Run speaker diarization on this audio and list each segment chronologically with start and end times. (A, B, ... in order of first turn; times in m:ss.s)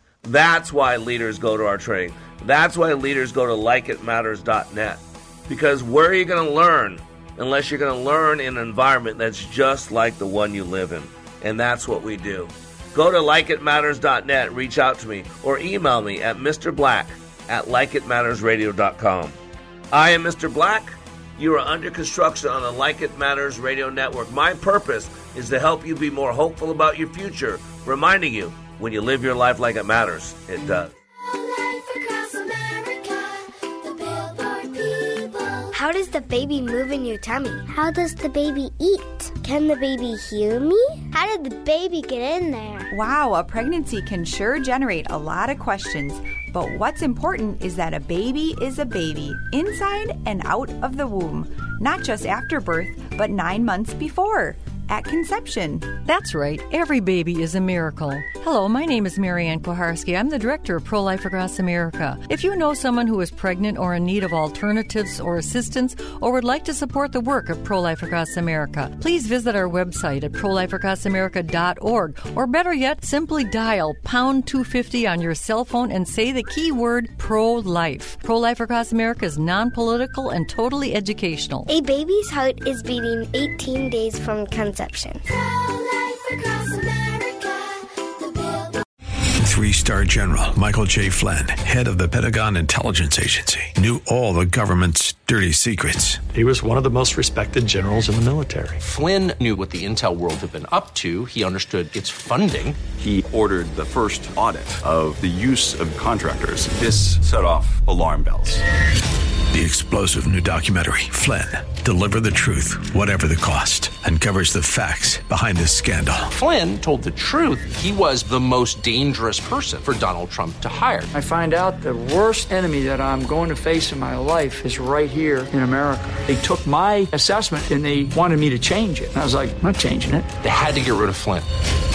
0:00.2-0:19.4 A
0:19.9-0:30.9 A
0:31.9-0:33.3 B
0:33.8-0:42.9 B
0:42.9-0:56.0 C
0:56.0-1:21.7 D
1:21.7-1:25.2 B
1:26.5-1:27.3 B
1:29.4-1:36.3 E
1:36.3-1:38.8 F
1:38.8-1:42.9 G
1:42.9-1:48.6 H
1:49.5-1:56.3 E
1:56.4-2:01.1 G
2:01.1-2:10.3 I
2:10.4-2:11.5 G